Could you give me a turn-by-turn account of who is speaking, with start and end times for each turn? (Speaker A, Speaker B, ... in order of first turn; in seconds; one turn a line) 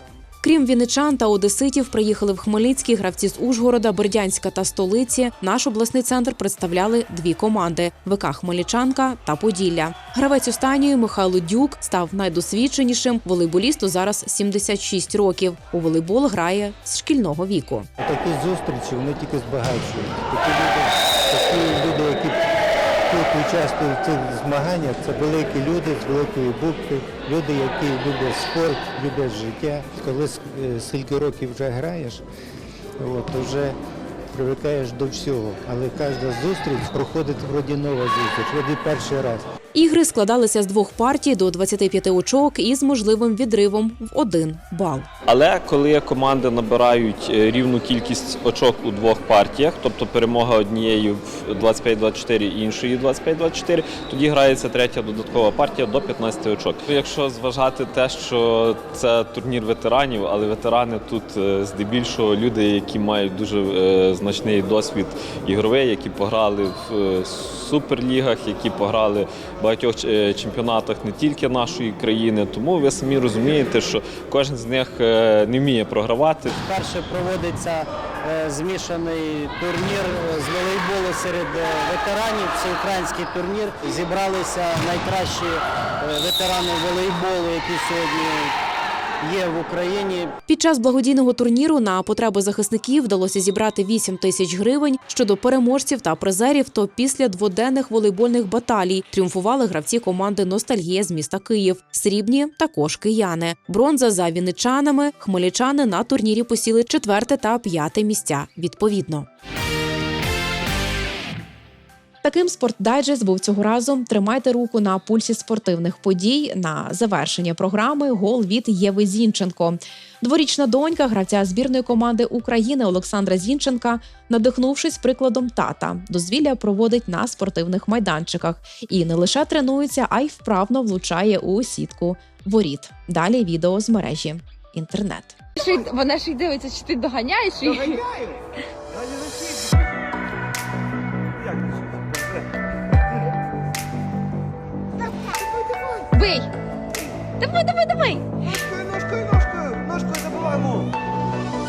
Speaker A: 0.4-17.9
Speaker B: 18.0-22.4
Speaker B: 23.1-32.2
Speaker B: 33.0-33.8
Speaker B: 34.3-39.4
Speaker A: 39.7-45.1
Speaker C: 45.2-76.5
Speaker D: 76.8-88.5
Speaker D: 89.3-90.2
Speaker A: 90.5-109.3
Speaker A: 112.2-135.4
Speaker E: 135.9-137.9
Speaker E: 146.2-146.5
Speaker E: 147.4-148.2